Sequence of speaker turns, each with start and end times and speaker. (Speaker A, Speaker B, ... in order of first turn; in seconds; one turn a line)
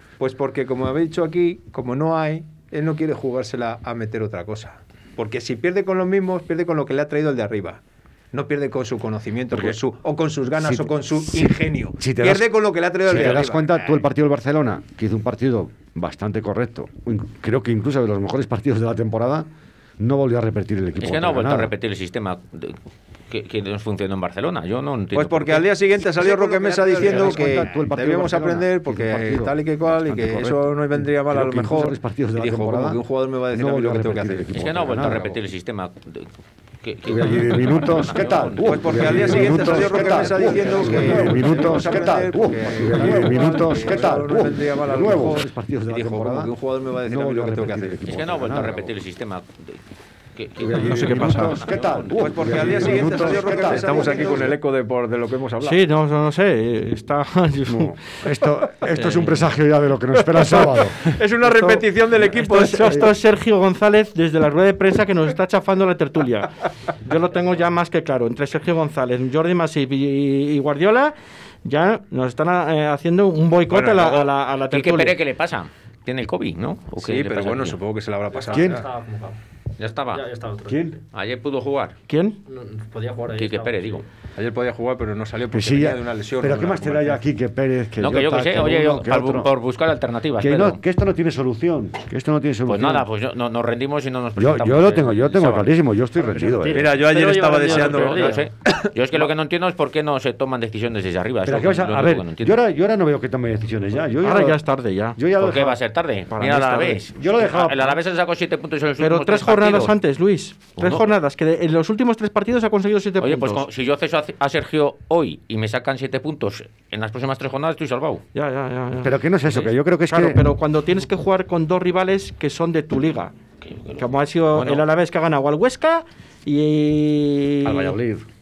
Speaker A: 0.2-7.8
Speaker A: 8.3-14.0
Speaker B: 9.5-9.8
Speaker B: 10.6-12.5
Speaker B: 13.0-19.5
Speaker B: 20.0-21.7
Speaker C: 21.0-22.8
Speaker C: 23.3-25.8
Speaker A: 25.1-35.4
Speaker B: 26.2-35.3
Speaker C: 34.5-36.3
Speaker C: 36.8-40.4
Speaker B: 37.1-46.5
Speaker A: 38.7-48.0
Speaker B: 47.0-48.9
Speaker C: 48.0-49.8
Speaker C: 50.4-54.1
Speaker B: 50.6-54.5
Speaker D: 50.8-51.6
Speaker A: 52.1-55.8
Speaker D: 55.6-58.0
Speaker B: 57.7-61.0
Speaker A: 61.1-63.0
Speaker D: 61.5-71.1
Speaker D: 71.7-75.2
Speaker C: 73.9-77.8
Speaker A: 77.0-78.8
Speaker E: 78.3-79.4
Speaker B: 78.5-78.8
Speaker C: 79.8-80.3
Speaker E: 80.1-81.0
Speaker B: 80.7-81.0
Speaker C: 81.1-81.9
Speaker D: 82.1-82.4
Speaker E: 82.5-84.0
Speaker C: 83.3-84.0
Speaker A: 84.4-87.2
Speaker B: 85.5-89.5
Speaker C: 88.0-90.8
Speaker B: 90.4-93.1
Speaker C: 92.7-95.7
Speaker B: 94.4-96.8
Speaker E: 96.2-98.4
Speaker A: 96.8-98.9
Speaker C: 97.6-102.6
Speaker B: 101.5-104.6
Speaker D: 104.2-105.2
Speaker B: 105.2-105.8
Speaker C: 105.3-110.0
Speaker D: 106.3-107.0
Speaker B: 107.1-108.0
Speaker D: 109.0-113.6
Speaker C: 110.8-111.0
Speaker C: 113.2-118.2
Speaker D: 118.3-119.2
Speaker B: 119.0-120.4
Speaker C: 119.5-119.7
Speaker D: 120.1-123.3
Speaker C: 123.6-124.9
Speaker D: 124.0-128.0
Speaker B: 127.6-128.2